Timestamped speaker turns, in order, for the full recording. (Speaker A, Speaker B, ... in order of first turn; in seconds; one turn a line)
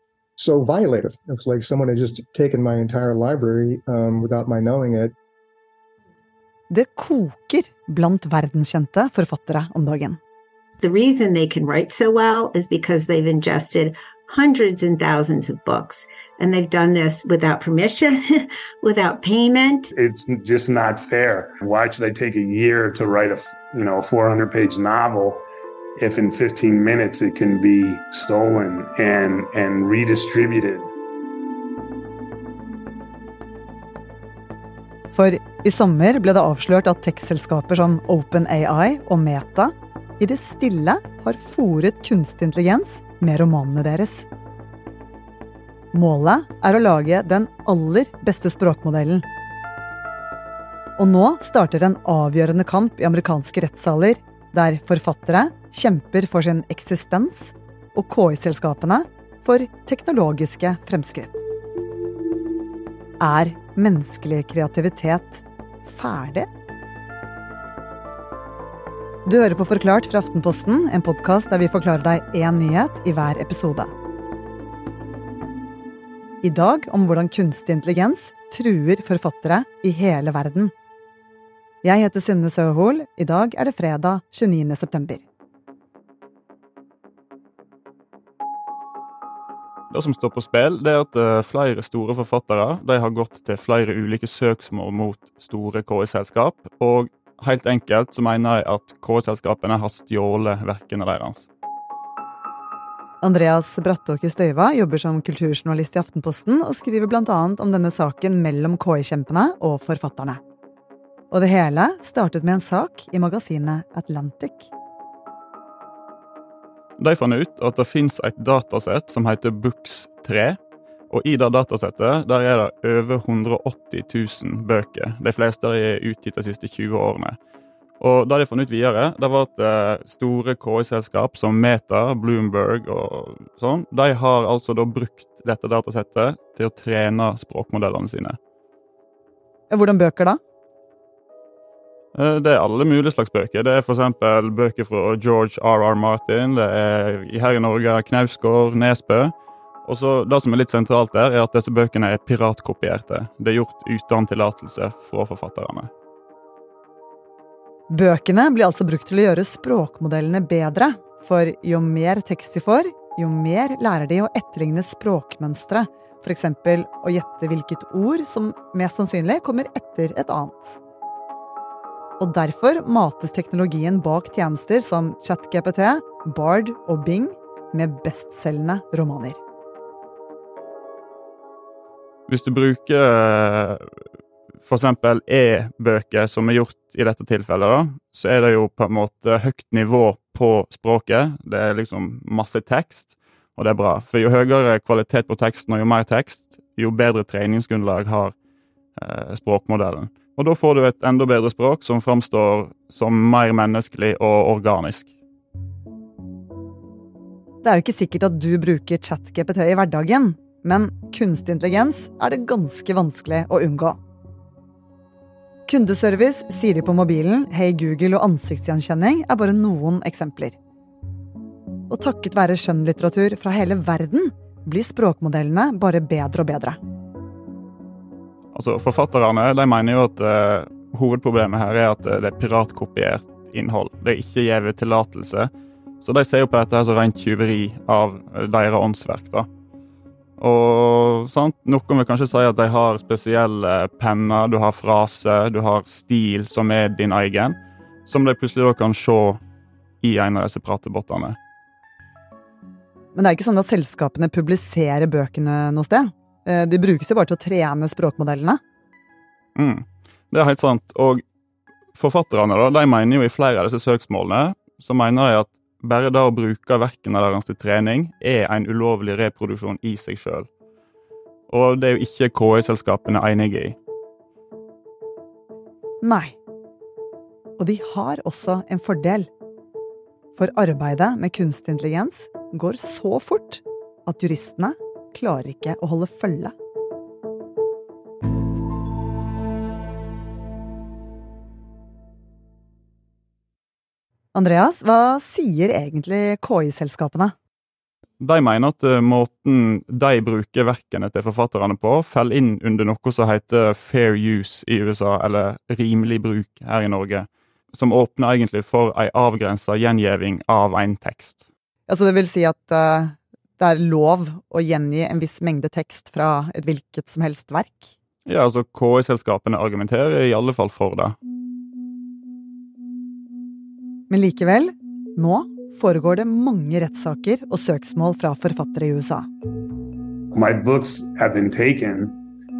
Speaker A: 0.4-5.1
Speaker B: 6.7-10.2
Speaker C: 10.8-19.9
Speaker D: 20.0-25.4
Speaker D: 26.0-30.9
Speaker B: 35.1-44.3
Speaker B: 45.9-49.2
Speaker B: 51.0-61.4
Speaker B: 63.2-66.5
Speaker B: 69.2-73.9
Speaker B: 76.4-80.7
Speaker B: 81.8-85.2
Speaker E: 89.9-101.5
Speaker B: 103.2-110.4
Speaker B: 111.3-114.7
Speaker E: 117.0-120.6
Speaker E: 121.1-127.3
Speaker E: 128.0-138.4
Speaker B: 139.7-140.4
Speaker E: 142.1-149.3
Speaker E: 149.8-155.9
Speaker B: 157.9-170.8
Speaker B: 172.2-179.4
Speaker E: 182.3-183.9
Speaker E: 184.7-198.3
Speaker E: 199.0-205.1
Speaker B: 207.6-214.0
Speaker B: 215.7-220.6
Speaker B: 221.9-226.8
Speaker E: 228.5-235.5
Speaker E: 236.0-239.5
Speaker E: 240.4-249.4
Speaker E: 250.0-251.4
Speaker B: 253.1-258.6
Speaker E: 259.6-261.2
Speaker E: 261.9-270.5
Speaker E: 271.5-273.8
Speaker B: 276.0-276.4
Speaker B: 277.6-279.3
Speaker B: 280.4-286.5
Speaker B: 294.3-297.3
Speaker E: 298.2-311.4
Speaker B: 311.9-317.9
Speaker E: 318.2-321.1
Speaker B: 324.1-329.3
Speaker D: 330.3-332.1